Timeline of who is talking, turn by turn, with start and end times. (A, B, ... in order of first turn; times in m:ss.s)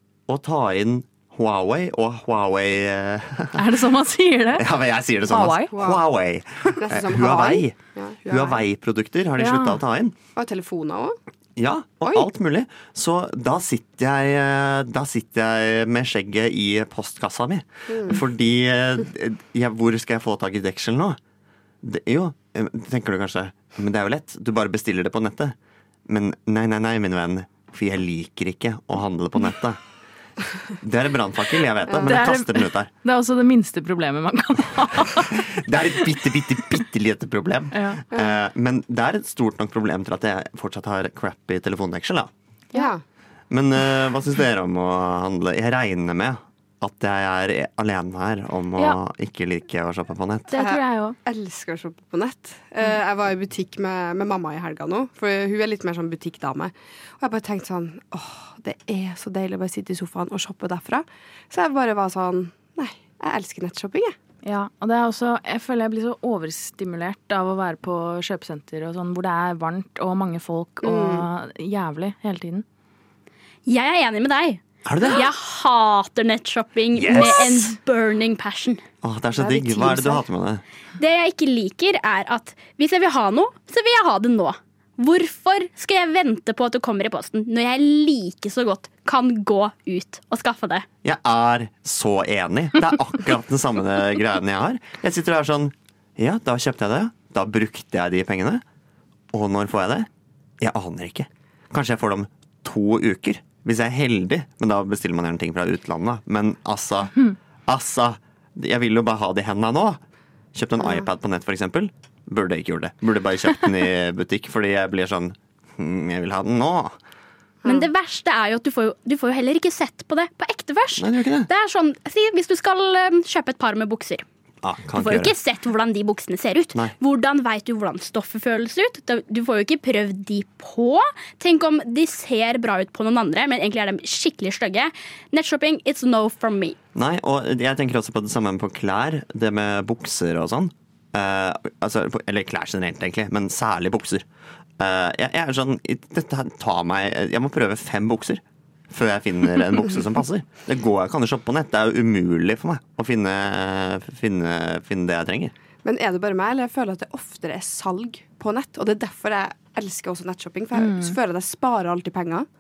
0:00.3-0:03.8 A
0:03.6-0:04.7 B
0:04.5-0:10.2 A
0:05.3-0:05.8 B
0:05.7-0:06.0 C
0:06.8-0:08.6 C
0:09.4-0:09.8 B
0:10.4-0:11.2 C
0:11.6-0:21.2 A
0:17.9-0:18.2 C
0:21.8-0:25.6 A
0:26.1-0:29.8 A
0:30.8-0:32.9 A
0:32.0-0:35.4 B
0:35.2-0:42.3 A
0:37.7-0:38.0 B
0:38.1-0:38.4 C
0:42.7-0:43.0 C
0:43.5-0:50.6 A
0:50.5-0:51.2 B
0:50.6-1:04.2 C
1:04.4-1:12.6 B
1:10.8-1:11.3 C
1:13.7-1:18.8 D
1:14.8-1:15.3 A
1:16.9-1:17.7 A
1:19.0-1:20.6 A
1:19.4-1:20.2 C
1:21.0-1:30.9 D
1:31.0-1:38.6 A
1:39.3-1:40.1 A
1:40.6-1:50.0 A
1:50.5-1:56.9 A
1:50.8-1:51.1 C
1:57.6-2:04.2 D
2:01.0-2:01.5 A
2:04.6-2:05.3 A
2:05.0-2:16.8 D
2:17.0-2:24.3 A
2:24.8-2:35.5 A
2:35.8-2:42.5 C
2:40.8-2:41.2 B